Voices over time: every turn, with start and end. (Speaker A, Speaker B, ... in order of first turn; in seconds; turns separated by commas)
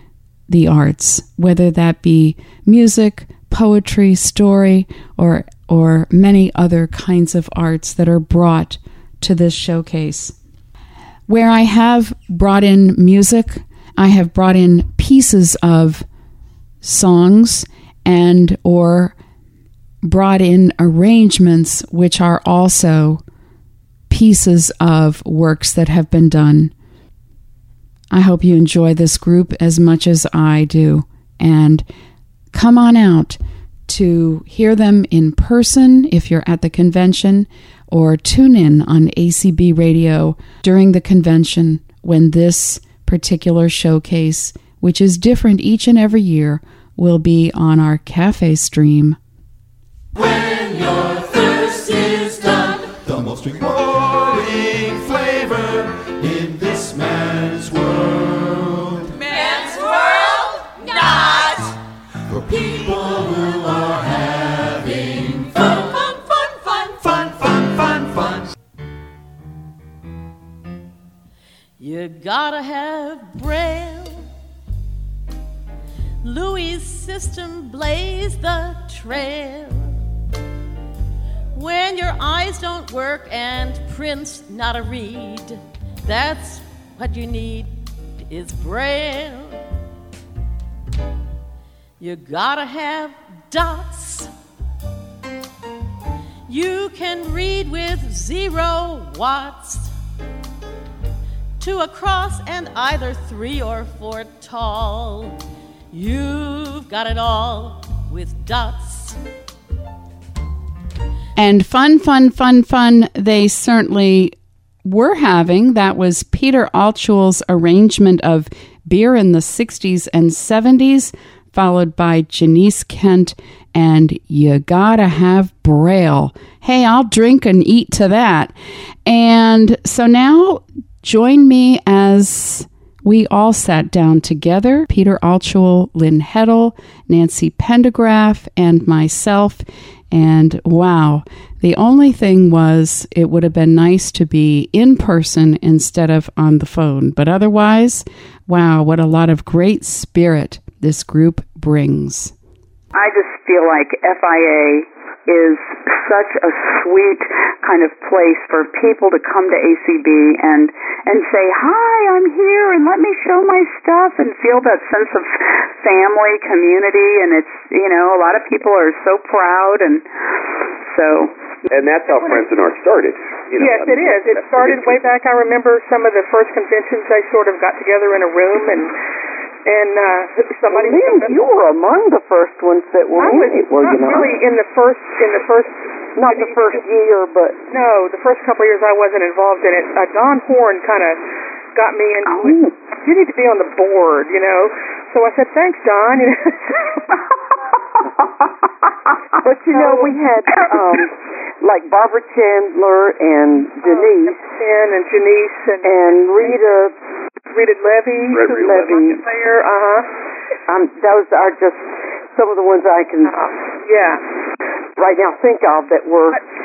Speaker A: 0.5-10.3, Speaker A: 11.3-16.1, Speaker A: 16.8-19.1, Speaker A: 20.0-23.2, Speaker A: 24.1-26.7, Speaker A: 28.1-31.9, Speaker A: 32.5-49.2, Speaker B: 50.2-59.2, Speaker B: 62.3-65.4, Speaker B: 67.0-68.4, Speaker C: 71.8-74.2, Speaker C: 76.2-80.0, Speaker C: 81.5-89.6, Speaker C: 92.0-94.3, Speaker C: 96.5-99.9, Speaker C: 101.6-105.4, Speaker C: 105.9-109.2, Speaker A: 111.3-128.5, Speaker A: 129.1-152.3, Speaker D: 152.9-170.1, Speaker D: 170.8-171.3, Speaker E: 171.7-175.0, Speaker F: 172.1-172.4, Speaker F: 173.5-178.9, Speaker F: 179.7-181.4, Speaker G: 180.7-184.3, Speaker F: 183.2-186.8, Speaker G: 186.2-187.6, Speaker F: 187.7-191.2, Speaker F: 191.7-197.0, Speaker D: 192.3-192.7, Speaker G: 199.4-204.4, Speaker F: 199.7-200.1, Speaker F: 203.8-206.6, Speaker G: 205.8-206.9, Speaker F: 207.5-210.1, Speaker E: 208.3-209.2, Speaker G: 208.6-209.2, Speaker G: 210.7-213.3, Speaker F: 213.2-214.2, Speaker G: 215.0-216.4